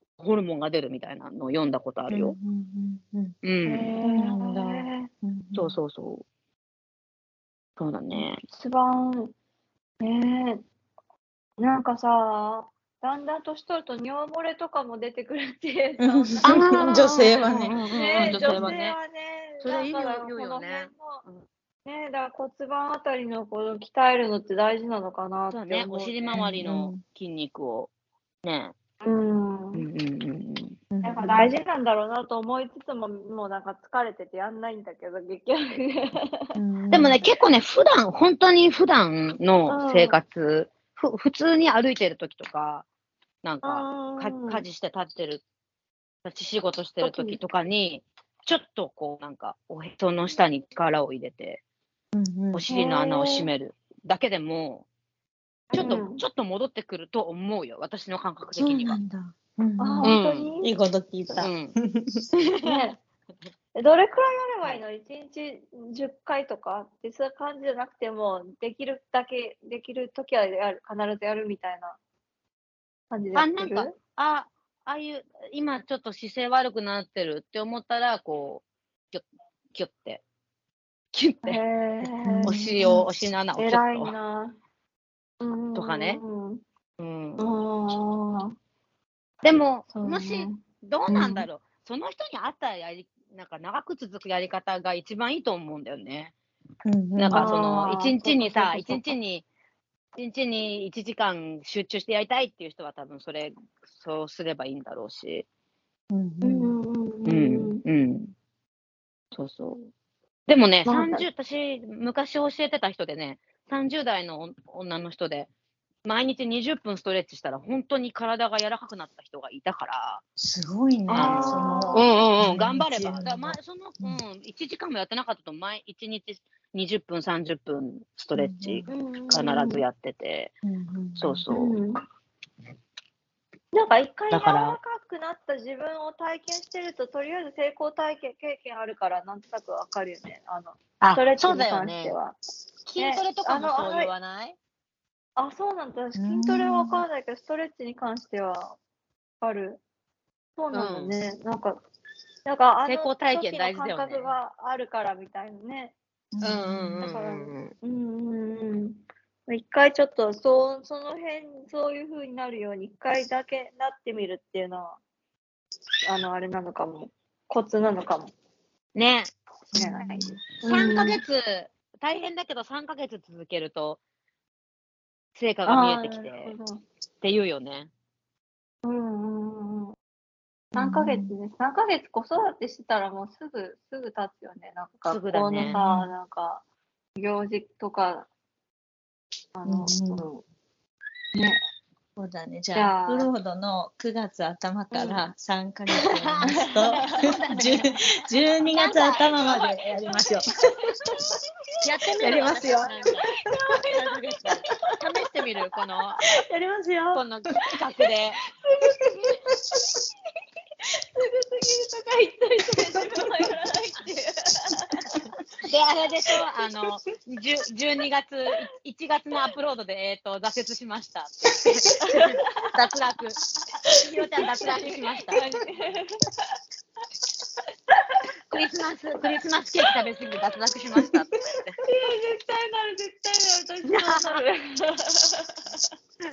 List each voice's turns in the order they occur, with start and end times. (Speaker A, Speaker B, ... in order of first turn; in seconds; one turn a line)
Speaker A: 0.2-2.4
Speaker B: 2.1-3.3
Speaker A: 3.4-4.8
Speaker C: 3.6-5.1
Speaker B: 4.2-4.6
Speaker B: 5.2-5.7
Speaker A: 5.5-6.2
Speaker A: 7.8-8.4
Speaker C: 8.5-9.3
Speaker C: 10.0-10.6
Speaker C: 11.6-17.4
Speaker B: 16.0-18.7
Speaker A: 16.4-19.0
Speaker C: 17.9-21.2
Speaker A: 19.6-21.4
Speaker C: 21.8-26.1
Speaker A: 25.5-27.9
Speaker B: 26.3-27.0
Speaker A: 28.4-28.7
Speaker C: 29.0-29.8
Speaker A: 29.7-30.8
Speaker B: 30.9-31.5
Speaker C: 31.0-36.4
Speaker B: 36.5-37.2
Speaker A: 36.9-42.9
Speaker C: 39.7-40.2
Speaker A: 43.4-45.4
Speaker C: 43.6-44.6
Speaker A: 46.2-51.6
Speaker C: 47.0-47.4
Speaker B: 52.1-52.6
Speaker A: 52.5-54.9
Speaker C: 52.7-53.5
Speaker A: 55.7-59.0
Speaker C: 55.7-56.2
Speaker B: 58.5-62.2
Speaker C: 59.8-60.8
Speaker A: 60.0-60.5
Speaker A: 61.4-61.7
Speaker A: 62.4-62.9
Speaker C: 62.6-63.0
Speaker C: 63.7-72.0
Speaker C: 73.1-73.9
Speaker A: 73.3-80.2
Speaker A: 81.1-81.6
Speaker C: 81.4-82.7
Speaker B: 82.2-83.0
Speaker A: 82.5-84.1
Speaker C: 83.5-84.6
Speaker C: 85.4-86.6
Speaker A: 85.7-86.2
Speaker A: 87.0-87.5
Speaker C: 87.4-88.5
Speaker A: 89.4-96.3
Speaker C: 89.9-90.6
Speaker B: 91.1-91.5
Speaker B: 96.8-97.5
Speaker A: 97.2-99.5
Speaker C: 97.3-99.1
Speaker A: 100.1-105.5
Speaker B: 106.1-106.7
Speaker C: 106.4-107.8
Speaker A: 107.2-108.3
Speaker A: 109.3-109.8
Speaker A: 110.5-115.5
Speaker C: 110.8-111.3
Speaker A: 116.0-120.2
Speaker B: 120.4-124.2
Speaker C: 121.1-122.0
Speaker A: 121.1-130.5
Speaker B: 128.3-128.9
Speaker C: 128.9-129.8
Speaker B: 130.6-131.4
Speaker A: 131.2-131.8
Speaker C: 131.5-132.0
Speaker C: 133.7-142.4
Speaker A: 134.3-134.8
Speaker A: 141.0-142.2
Speaker A: 142.8-144.6
Speaker C: 143.0-144.1
Speaker C: 145.4-148.8
Speaker B: 146.2-147.0
Speaker C: 149.4-149.8
Speaker C: 150.6-151.8
Speaker A: 150.7-151.1
Speaker C: 152.4-155.9
Speaker A: 152.8-154.3
Speaker B: 156.3-157.0
Speaker A: 156.4-157.7
Speaker C: 157.0-165.0
Speaker C: 166.1-168.3
Speaker A: 168.9-169.3
Speaker B: 169.7-170.4
Speaker C: 169.8-171.2
Speaker A: 170.6-174.0
Speaker A: 175.3-176.5
Speaker C: 175.7-176.8
Speaker A: 177.2-177.9
Speaker C: 178.8-179.9
Speaker C: 180.7-186.6
Speaker B: 180.8-181.3
Speaker A: 185.1-185.8
Speaker B: 185.6-186.1
Speaker C: 187.2-188.3
Speaker C: 189.5-190.4
Speaker B: 189.7-190.2
Speaker C: 191.3-191.6
Speaker B: 192.2-200.6
Speaker C: 192.7-193.3
Speaker A: 196.1-197.9
Speaker C: 196.5-197.7
Speaker A: 198.7-199.8
Speaker C: 200.2-201.3
Speaker A: 201.8-203.3
Speaker B: 202.0-203.0
Speaker C: 202.2-205.0
Speaker A: 203.9-206.2
Speaker B: 206.3-207.2
Speaker A: 207.1-208.4
Speaker C: 208.5-209.4
Speaker B: 208.8-210.0
Speaker C: 211.1-215.1
Speaker A: 215.6-223.4
Speaker C: 222.0-222.7
Speaker C: 223.9-226.5
Speaker A: 224.0-225.4
Speaker C: 227.9-228.6
Speaker A: 228.5-231.8
Speaker C: 231.8-235.8
Speaker A: 233.9-234.4